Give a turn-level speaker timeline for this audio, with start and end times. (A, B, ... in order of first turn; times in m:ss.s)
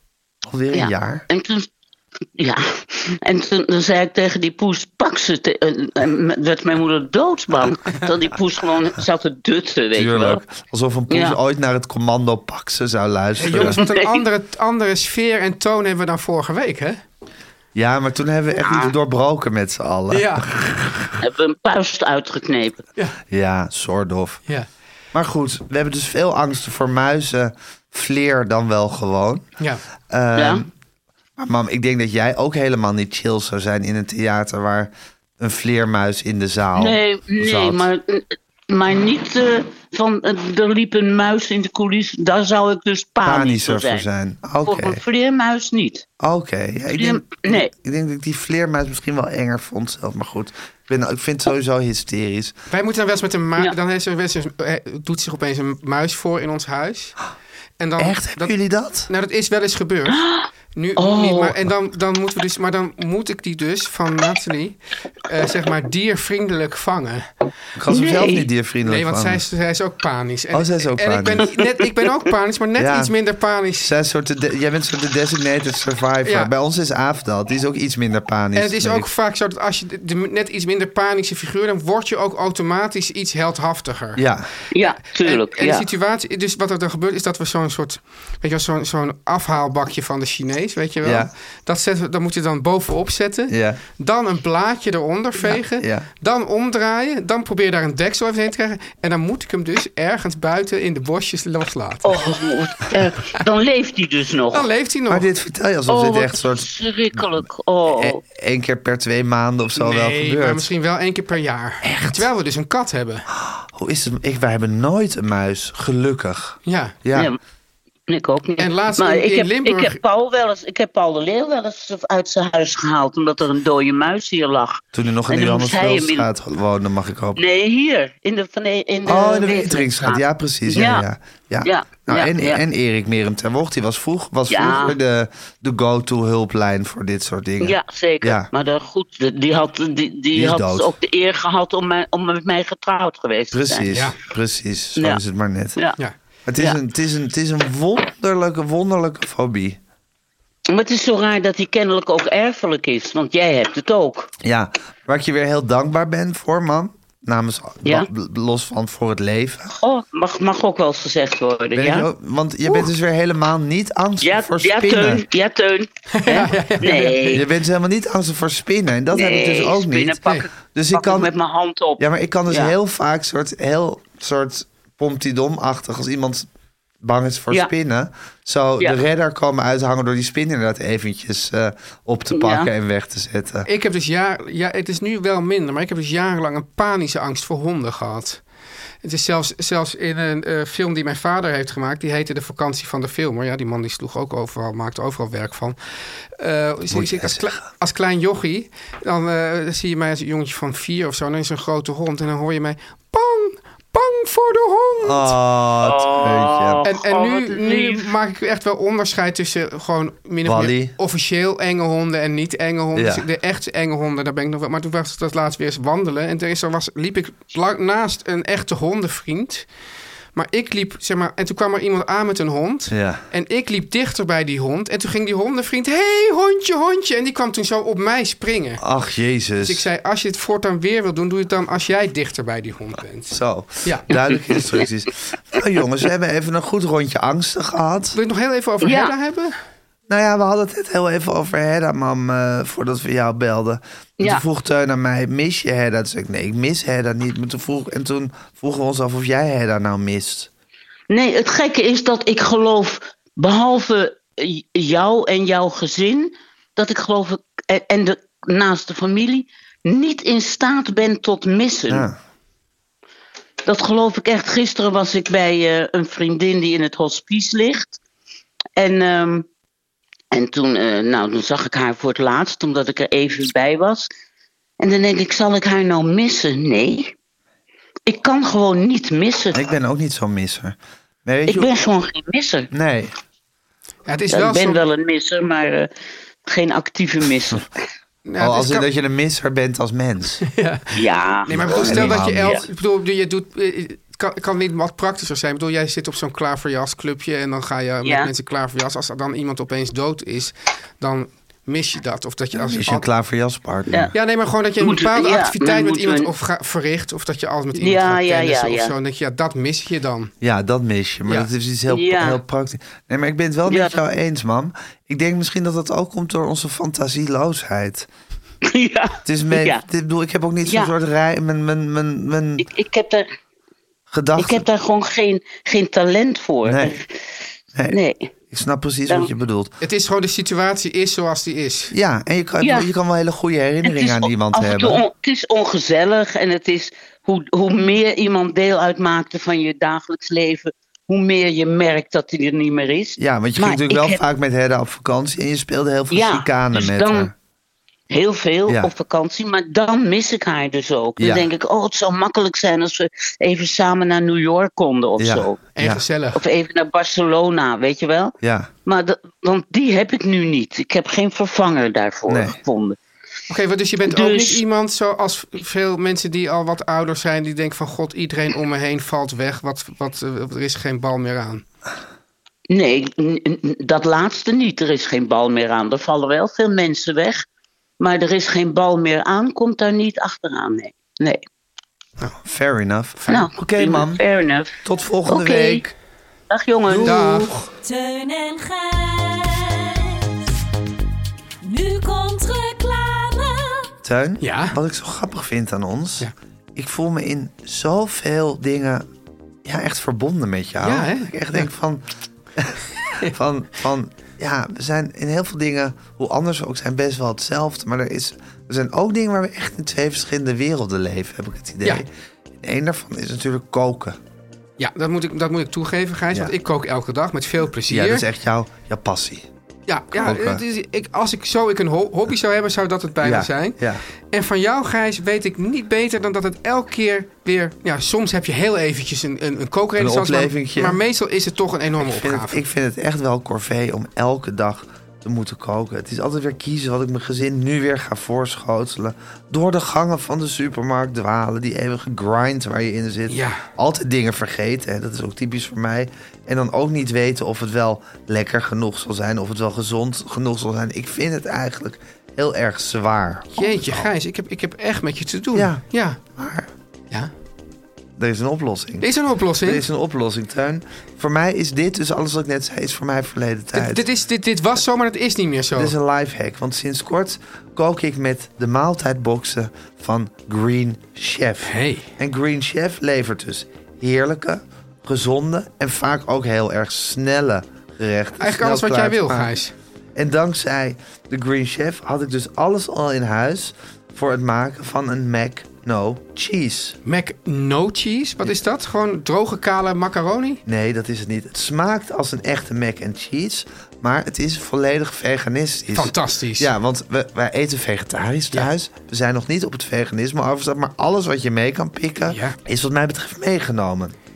0:00.5-0:01.2 A
0:00.7-0:01.7 B
0:02.4-0:10.4 B
0:10.0-0:13.8 A
0:11.1-0:11.4 B
0:13.4-0:17.0 C
0:13.5-0:14.2 B
0:17.8-0:21.2 A
0:18.6-0:18.9 B
0:20.1-0:20.5 C
0:21.2-0:22.8 B
0:23.3-0:24.4 A
0:25.1-0:29.4 A
0:30.1-0:30.7 A
0:30.4-0:30.7 B
0:31.4-0:37.9 A
0:36.8-0:44.0 B
0:43.2-0:45.0 A
0:44.6-0:46.1 B
0:46.2-0:52.6 A
0:46.9-0:47.7 B
0:52.7-0:57.2 C
0:57.8-0:58.5 C
0:58.0-0:59.1 A
0:59.1-1:00.2 C
1:00.1-1:01.6 B
1:00.7-1:07.3 C
1:07.8-1:09.4 A
1:07.9-1:08.5 B
1:08.8-1:13.9 C
1:10.5-1:11.5 A
1:12.8-1:13.1 A
1:13.8-1:19.1 A
1:16.2-1:16.5 C
1:18.6-1:24.2 C
1:24.2-1:24.5 A
1:24.7-1:25.9 B
1:25.2-1:42.2 C
1:31.0-1:31.3 A
1:33.5-1:33.8 A
1:35.4-1:36.1 A
1:42.0-1:44.7 B
1:44.5-1:45.3 C
1:45.1-1:50.7 A
1:45.9-1:48.2 B
1:49.8-1:53.3 C
1:51.8-1:52.3 A
1:53.4-1:57.3 A
1:56.7-1:57.0 C
1:58.1-2:06.3 B
1:58.6-2:00.0 C
2:04.9-2:07.4 A
2:07.4-2:11.0 B
2:09.1-2:18.5 A
2:11.6-2:12.6 B
2:14.5-2:15.0 B
2:17.6-2:23.9 B
2:20.3-2:20.9 A
2:23.5-2:25.8 A
2:23.9-2:24.2 C
2:26.5-2:29.8 A
2:30.7-2:34.3 B
2:34.4-2:39.7 A
2:39.7-2:42.1 B
2:41.8-2:45.2 A
2:44.2-2:47.4 B
2:46.1-2:47.4 C
2:47.3-2:51.3 A
2:49.1-2:52.7 B
2:52.0-2:56.5 A
2:57.0-3:03.7 A
3:02.3-3:02.7 B
3:03.7-3:08.4 C
3:09.0-3:15.8 C
3:16.4-3:25.4 C
3:16.9-3:17.6 A
3:25.0-3:26.8 A
3:25.8-3:28.1 B
3:26.8-3:39.7 C
3:30.4-3:30.9 A
3:33.0-3:33.2 A
3:40.3-3:48.8 C
3:42.9-3:43.2 A
3:48.8-3:49.9 A
3:49.6-3:54.1 C
3:53.3-3:58.2 A
3:58.2-3:59.5 C
3:58.8-3:59.1 B
4:00.1-4:10.5 A
4:11.1-4:22.1 B
4:21.9-4:22.2 A
4:23.7-4:28.0 B
4:28.8-4:29.5 B
4:30.3-4:34.1 B
4:34.8-4:37.1 B
4:38.1-4:39.6 B
4:39.5-4:41.7 A
4:41.5-4:42.7 B
4:42.7-4:43.1 A
4:44.1-4:44.8 C
4:44.3-4:45.9 B
4:46.5-4:47.7 B
4:48.3-4:48.9 C
4:48.4-4:50.4 A
4:50.5-5:03.1 C
4:51.0-4:52.6 B
4:51.5-4:52.6 A
4:58.0-4:58.3 B
5:02.6-5:04.1 A
5:04.1-5:10.3 C
5:04.8-5:06.3 B
5:07.8-5:08.9 B
5:10.4-5:18.1 A
5:11.9-5:12.4 B
5:13.7-5:13.9 B
5:18.6-5:19.8 B
5:19.2-5:22.7 A
5:20.7-5:20.9 B
5:22.6-5:23.3 B
5:24.1-5:24.6 A
5:24.4-5:27.2 B
5:26.6-5:27.0 A
5:27.9-5:28.3 B
5:28.5-5:29.7 A
5:29.8-5:31.9 C
5:31.9-5:35.0 A
5:32.6-5:32.9 B
5:33.8-5:44.2 B
5:43.2-5:47.3 A
5:46.1-5:47.3 B
5:48.1-5:55.6 B
5:51.2-5:51.5 A
5:55.2-5:56.0 A
5:55.8-5:56.4 C
5:56.3-5:58.4 B
5:58.4-5:58.7 A
5:58.9-6:03.0 B
6:02.3-6:02.6 A
6:03.5-6:11.6 C
6:04.0-6:04.6 B
6:12.7-6:17.4 B
6:18.0-6:21.4 B
6:22.4-6:24.2 A
6:23.2-6:23.5 C
6:23.3-6:25.8 B
6:24.8-6:25.9 A
6:26.5-6:27.5 B
6:26.9-6:27.4 A
6:27.0-6:27.7 C
6:27.8-6:30.5 D
6:31.6-6:33.9 D
6:34.0-6:39.1 A
6:34.4-6:34.8 C
6:39.6-6:52.1 A
6:40.8-6:41.7 C
6:52.6-6:54.2 A
6:54.8-6:58.3 C
6:57.9-6:59.5 A
6:59.9-7:03.8 C
7:00.1-7:00.6 A
7:03.2-7:04.0 A
7:04.3-7:12.6 C
7:10.0-7:11.0 A
7:12.0-7:34.1 A
7:23.3-7:23.7 C
7:33.6-7:36.2 C
7:35.5-7:36.7 A
7:38.2-7:39.1 A
7:39.0-7:39.8 C
7:39.6-7:44.0 A
7:43.7-7:45.9 C
7:45.8-7:59.5 A
7:51.6-7:52.1 C
7:58.4-7:59.7 C
8:00.2-8:07.0 A
8:07.0-8:10.6 C
8:10.7-8:24.2 A
8:15.9-8:16.7 C
8:22.3-8:22.6 C